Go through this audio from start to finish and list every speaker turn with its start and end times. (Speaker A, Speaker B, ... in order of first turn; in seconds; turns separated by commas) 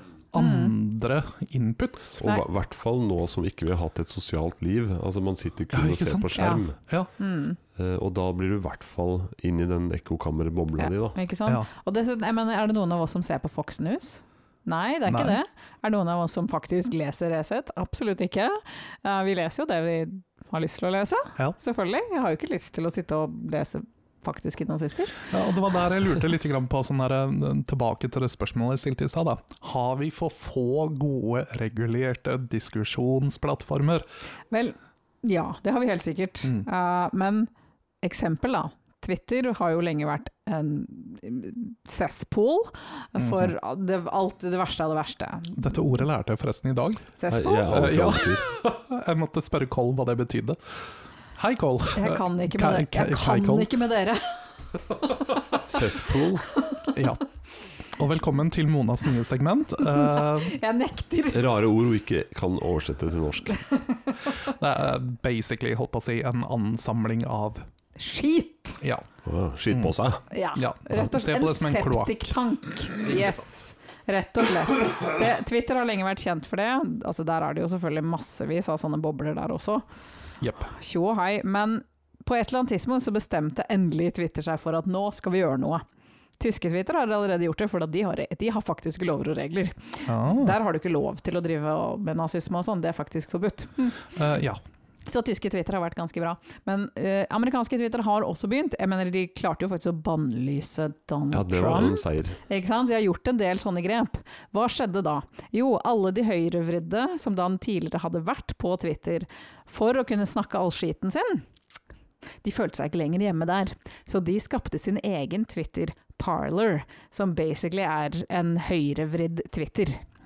Speaker A: 0.3-2.2, Speaker B: 0.4-0.8, Speaker C: 2.2-6.8, Speaker A: 5.7-7.1, Speaker B: 6.3-6.6, Speaker B: 7.2-7.6, Speaker C: 7.8-11.2, Speaker B: 10.8-25.2, Speaker A: 15.1-15.4, Speaker A: 25.3-34.0, Speaker B: 34.5-37.5, Speaker B: 38.0-45.8, Speaker A: 43.2-43.5, Speaker A: 45.5-47.1, Speaker B: 47.2-48.0, Speaker C: 47.3-48.4, Speaker A: 47.6-50.6, Speaker A: 51.4-53.7, Speaker B: 52.0-54.5, Speaker C: 55.6-56.5, Speaker B: 56.5-56.9, Speaker A: 56.9-57.2, Speaker A: 58.0-60.6, Speaker B: 59.9-61.5, Speaker C: 61.3-63.6, Speaker B: 63.6-64.3, Speaker A: 64.4-67.6, Speaker B: 68.0-68.8, Speaker A: 68.8-69.1, Speaker C: 69.2-70.2, Speaker B: 70.3-79.8, Speaker A: 70.6-72.3, Speaker A: 80.4-80.7, Speaker B: 80.6-85.8, Speaker B: 86.4-94.0, Speaker A: 90.1-90.6, Speaker A: 94.1-94.6, Speaker B: 95.0-111.5, Speaker C: 101.3-102.4, Speaker B: 112.4-120.0